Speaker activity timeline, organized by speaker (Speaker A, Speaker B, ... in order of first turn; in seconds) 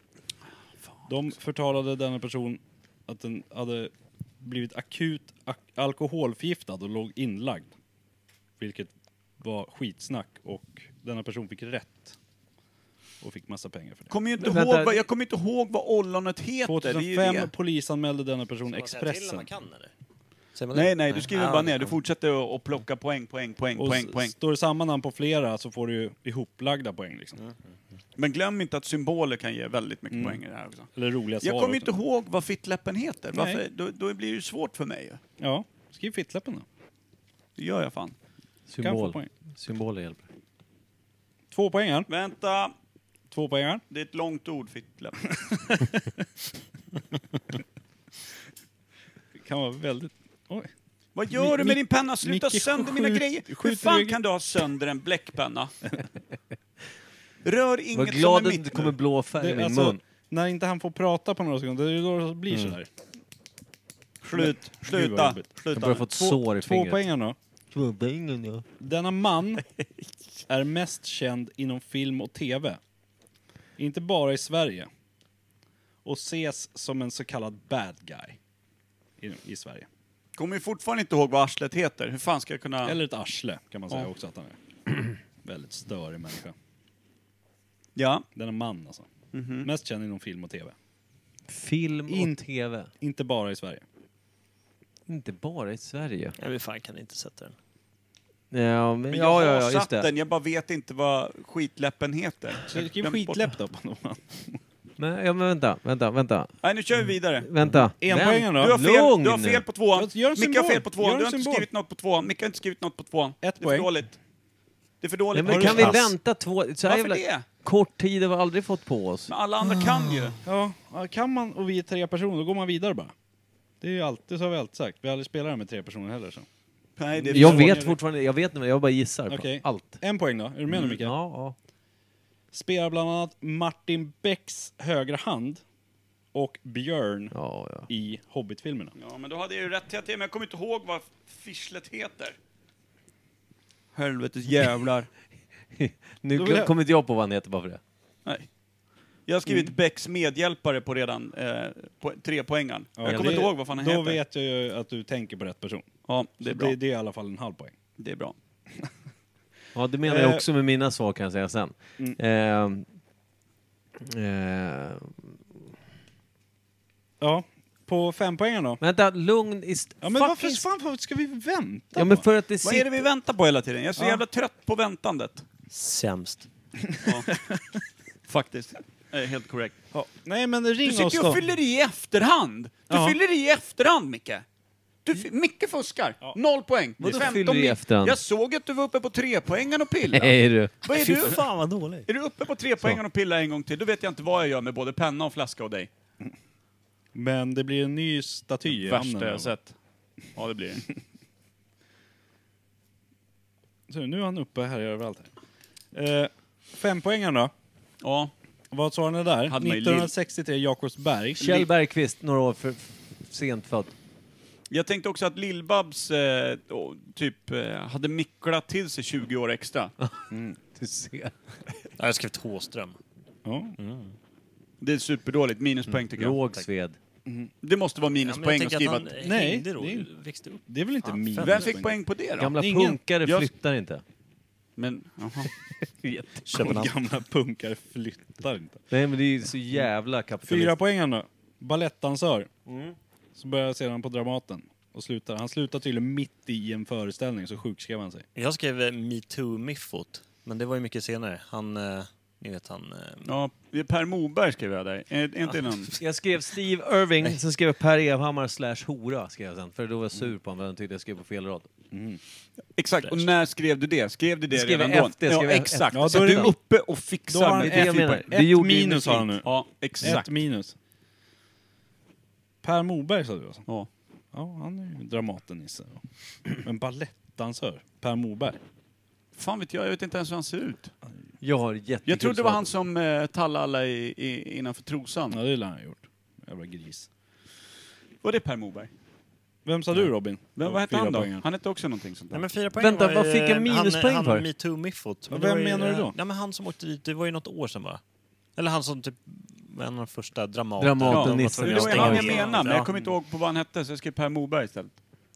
Speaker A: 1.1-7.7, 8.6-12.2, 13.2-14.1, 16.6-19.5, 23.8-27.4, 30.1-30.4, 30.9-31.9, 33.3-33.6, 35.4-36.7, 38.8-39.3, 41.5-42.1, 43.3-43.8, 45.5-46.1, 49.4-50.7, 51.3-54.2, 59.4-62.9, 64.3-67.4, 68.8-69.6, 70.5-72.8, 73.8-74.9, 76.0-78.4, 79.2-79.9, 82.8-86.5, 88.3-89.1, 89.6-90.8, 92.1-92.4, 93.0-93.8, 102.7-104.6, 108.0-108.8, 110.0-111.7, 113.4-113.9, 115.5-115.9, 120.4-123.1, 123.8-126.5, 127.2-128.0, 129.3-131.1, 132.5-135.6, 136.3-137.4, 137.9-138.9, 146.3-146.7, 153.0-155.9, 156.4-157.7, 160.1-160.5, 167.2-168.8, 170.0-172.2, 174.0-174.2, 176.9-177.6, 179.9-181.4, 182.9-183.2, 197.1-199.5, 203.9-205.3, 205.9-207.5, 208.7-211.7, 220.3-220.6, 223.4-223.8, 229.2-230.1, 230.7-232.0, 232.6-233.0, 236.5-238.8, 240.4-242.5, 243.4-248.3, 261.9-262.2, 265.9-266.6, 267.3-269.5, 270.0-270.8, 272.6-273.7, 274.3-278.6, 285.3-287.1, 289.6-291.4, 295.3-296.1, 302.1-303.1
Speaker B: 14.1-17.5, 20.7-24.3, 28.2-30.9, 31.4-35.2, 37.6-38.1, 42.1-42.7, 43.9-45.3, 51.1-55.7, 57.4-59.0, 64.2-66.1, 80.4-83.0, 88.0-88.3, 89.3-89.7, 99.1-103.4, 106.6-107.5, 108.6-114.2, 115.0-116.1, 116.9-117.5, 119.3-120.4, 127.0-127.9, 139.0-142.4, 143.9-145.1, 149.3-154.2, 156.1-156.8, 158.0-158.3, 172.6-175.4, 177.0-177.3, 178.3-179.8, 180.8-184.4, 185.1-191.5, 192.1-195.9, 198.7-199.8, 200.3-200.8, 208.0-208.3, 209.5-210.1, 214.7-219.9, 224.8-226.4, 227.6-229.1, 231.4-232.6, 233.2-233.5, 234.8-235.5, 253.2-256.0, 262.8-268.3, 269.4-270.3, 279.4-280.9, 282.1-285.4, 288.2-288.9, 290.6-292.5, 301.1-304.9
Speaker C: 14.4-15.0, 38.7-40.2, 57.9-60.0, 65.7-67.0, 67.7-68.7, 91.5-92.9, 95.1-96.4, 98.5-100.1, 105.0-106.5, 107.4-109.7, 115.3-119.3, 127.3-130.0, 130.7-131.6, 137.3-137.9, 145.7-147.8, 153.1-153.4, 159.8-162.9, 164.0-165.3, 168.8-170.7, 171.9-173.1, 187.0-188.2, 190.1-190.8, 211.4-213.9, 220.8-221.3, 226.1-227.0, 232.4-234.0, 235.8-236.8, 238.9-240.8, 242.7-243.0, 256.0-261.7, 264.5-266.5, 267.5-269.4, 281.4-282.7, 292.8-294.5, 300.8-302.5
Speaker D: 18.7-19.9, 20.6-22.0, 96.4-97.6, 115.8-116.0, 175.7-176.5, 190.9-192.1, 222.0-223.0, 223.8-224.1, 228.2-231.7, 236.5-236.9, 248.3-253.3, 292.3-298.0, 298.6-302.9